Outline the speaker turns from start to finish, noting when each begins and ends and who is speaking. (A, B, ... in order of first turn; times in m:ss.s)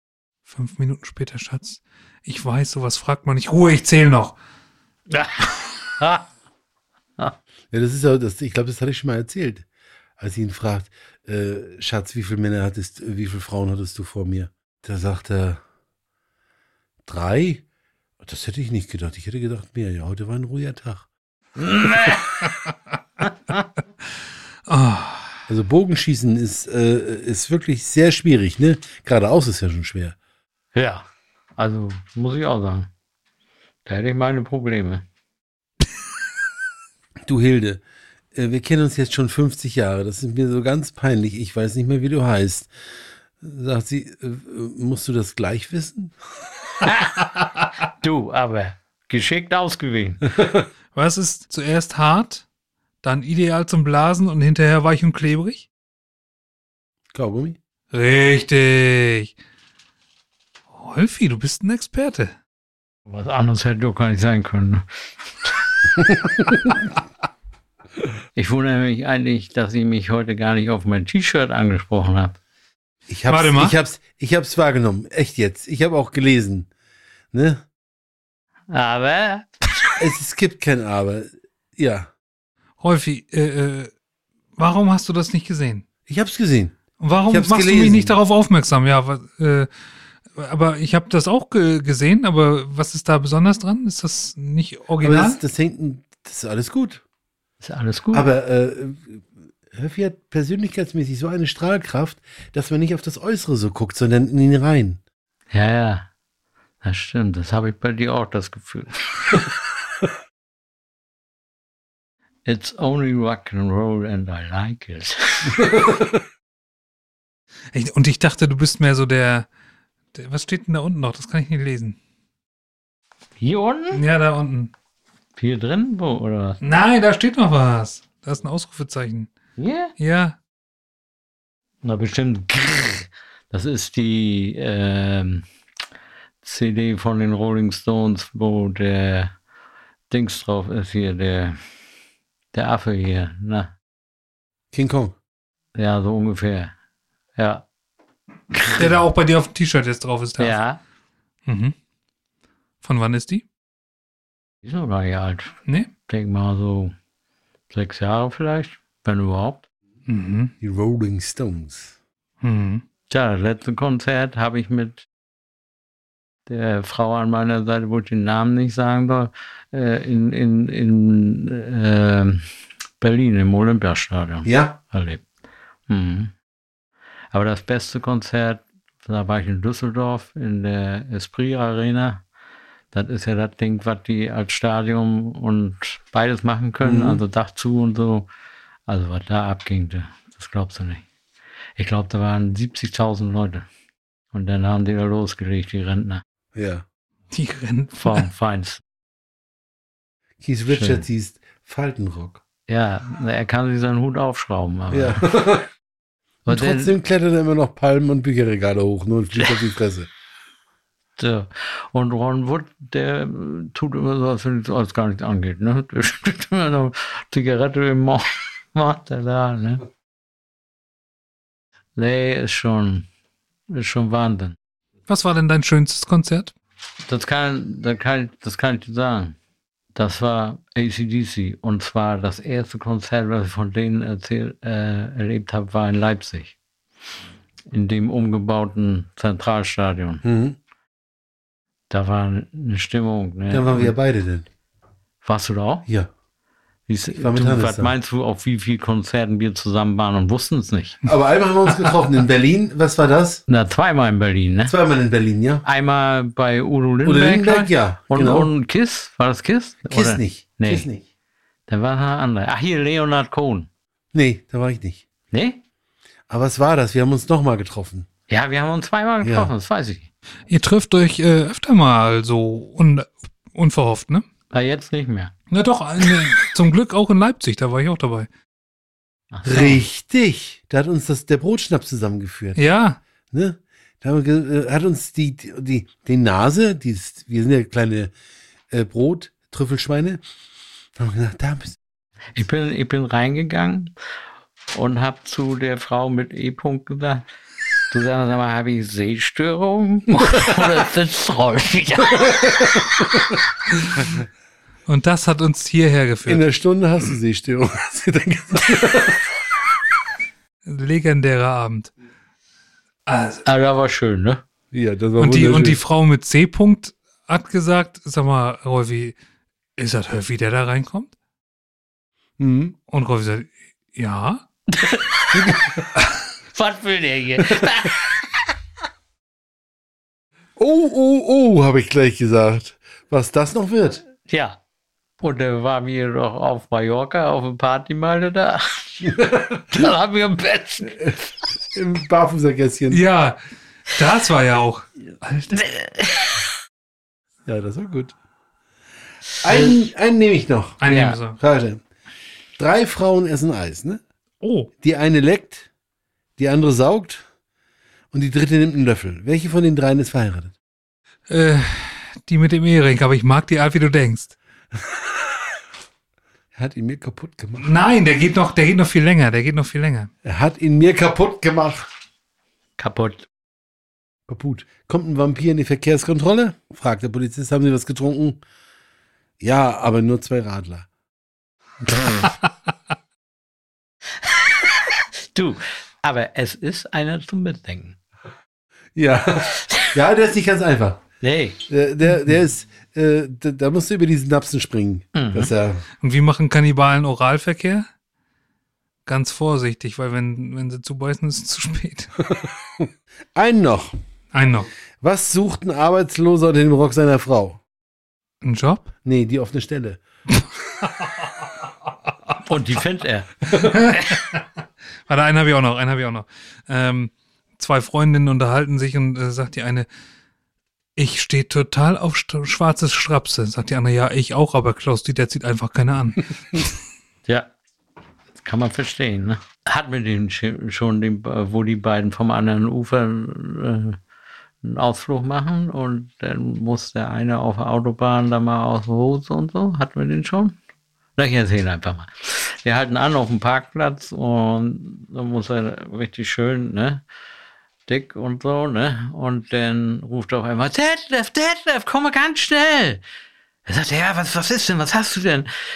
0:00.5-0:04.4 A
0:05.1-0:06.3 B
0:07.7-0:09.7 C
0:10.2-0:15.6 C
0:17.0-0:17.6 C
0:18.2-0:21.1 C
0:21.6-0:22.5 B
0:24.7-0:25.3 A
0:25.5-0:30.2 C
0:30.7-0:32.9 B
0:33.9-0:35.0 B
0:37.3-0:37.8 C
0:38.3-0:42.7 C
0:43.4-0:46.2 C
0:46.8-0:47.3 B
0:47.9-0:50.3 B
0:50.9-0:52.4 A
0:53.0-0:55.7 A
0:57.1-0:57.6 C
0:57.9-0:59.4 A
1:00.7-1:02.3 A
1:03.1-1:04.8 B
1:06.0-1:06.5 C
1:08.4-1:12.4 B
1:13.1-1:16.7 C
1:13.3-1:13.8 A
1:17.3-1:17.6 C
1:18.7-1:20.0 B
1:20.0-1:22.1 C
1:22.8-1:23.9 A
1:24.6-1:25.8 A
1:26.1-1:28.2 C
1:27.0-1:29.7 A
1:30.4-1:35.4 A
1:35.0-1:37.0 C
1:37.6-1:38.3 B
1:38.1-1:45.0 C
1:45.5-1:46.1 B
1:46.8-1:49.5 B
1:52.5-1:55.8 B
1:57.7-1:59.5 A
2:00.1-2:02.0 A
2:03.4-2:04.0 B
2:03.9-2:04.7 A
2:05.4-2:06.6 B
2:06.6-2:09.3 A
2:09.6-2:09.9 B
2:10.0-2:10.4 A
2:11.8-2:15.5 B
2:16.4-2:19.3 B
2:20.1-2:21.6 B
2:22.5-2:23.7 B
2:24.7-2:25.2 C
2:25.8-2:26.7 B
2:27.4-2:27.7 B
2:28.5-2:28.9 B
2:28.7-2:30.6 A
2:30.4-2:30.8 B
2:31.5-2:31.8 A
2:32.8-2:33.4 A
2:34.6-2:35.5 B
2:36.1-2:36.9 B
2:37.7-2:39.7 B
2:40.1-2:40.5 A
2:40.6-2:42.0 C
2:42.4-2:42.8 A
2:43.1-2:45.0 B
2:46.5-2:52.4 B
2:53.0-2:55.2 B
2:54.4-2:54.8 C
2:55.9-2:56.3 B
2:57.3-3:02.2 B
3:02.9-3:08.3 B
3:06.8-3:07.2 C
3:08.9-3:11.0 B
3:11.8-3:13.7 B
3:14.3-3:16.2 B
3:16.6-3:16.8 C
3:17.3-3:18.3 A
3:18.0-3:18.8 B
3:20.4-3:22.4 C
3:20.7-3:21.0 B
3:22.7-3:25.2 B
3:24.9-3:25.7 C
3:26.5-3:27.0 B
3:26.5-3:30.1 C
3:31.2-3:39.8 B
3:42.0-3:43.1 B
3:43.7-3:44.6 B
3:45.1-3:46.5 A
3:47.0-3:49.4 B
3:50.0-3:56.6 B
3:57.7-4:00.2 B
4:00.2-4:00.6 C
4:01.9-4:04.0 B
4:03.5-4:04.5 C
4:05.2-4:05.9 B
4:06.9-4:11.0 B
4:07.1-4:08.0 C
4:11.1-4:13.4 C
4:13.5-4:14.8 B
4:14.7-4:15.6 C
4:15.6-4:20.9 B
4:17.0-4:18.5 C
4:19.9-4:21.0 C
4:21.7-4:23.7 B
4:24.1-4:25.0 C
4:25.3-4:25.6 B
4:26.3-4:28.1 C
4:28.3-4:30.1 B
4:29.2-4:29.5 C
4:30.5-4:34.2 A
4:34.5-4:35.3 B
4:35.5-4:38.3 A
4:39.3-4:39.8 B
4:39.4-4:42.6 C
4:42.6-4:43.0 A
4:43.3-4:48.1 C
4:48.7-4:50.2 C
4:51.0-4:51.8 C
4:52.4-4:53.9 B
4:54.7-4:57.3 B
4:57.9-5:02.8 B
5:04.9-5:06.4 A
5:06.3-5:09.2 C
5:10.6-5:11.9 A
5:13.1-5:13.4 A
5:13.4-5:14.4 B
5:14.7-5:15.8 C
5:15.2-5:19.2 A
5:19.8-5:21.1 A
5:22.4-5:22.8 C
5:22.9-5:24.4 A
5:24.7-5:25.6 B
5:25.3-5:25.8 C
5:26.5-5:28.4 B
5:27.4-5:27.7 C
5:30.6-5:34.0 C
5:34.3-5:34.6 B
5:35.2-5:41.1 B
5:41.7-5:43.0 C
5:42.9-5:45.7 A
5:45.5-5:46.4 B
5:47.5-5:48.2 C
5:49.4-5:50.8 C
5:49.5-5:49.8 B
5:50.8-5:51.4 A
5:50.8-5:51.2 B
5:51.3-5:51.8 C
5:52.6-5:54.0 C
5:54.4-5:54.7 A
5:54.8-5:55.7 C
5:56.4-5:57.2 C
5:58.1-6:00.5 C
6:01.3-6:04.4 A
6:06.6-6:07.7 C
6:07.6-6:10.1 A
6:10.2-6:11.9 C
6:12.8-6:13.3 B
6:14.3-6:18.4 C
6:19.4-6:20.9 C
6:21.9-6:22.3 B
6:24.3-6:24.8 B
6:25.3-6:28.0 B
6:29.0-6:31.0 C
6:31.2-6:31.6 B
6:31.7-6:35.8 C
6:35.2-6:35.5 B
6:36.0-6:37.9 A
6:39.1-6:42.1 A
6:42.2-6:44.0 C
6:44.3-6:44.7 A
6:45.0-6:47.6 C
6:48.4-6:48.9 A
6:49.0-6:50.0 C
6:50.4-6:51.3 A
6:52.4-6:53.7 B
6:53.5-6:54.4 A
6:55.1-6:59.9 A
7:01.0-7:06.8 A
7:07.2-7:07.5 B
7:08.4-7:14.0 B
7:14.6-7:20.6 B
7:21.2-7:27.0 B
7:27.9-7:33.0 B
7:33.7-7:35.5 B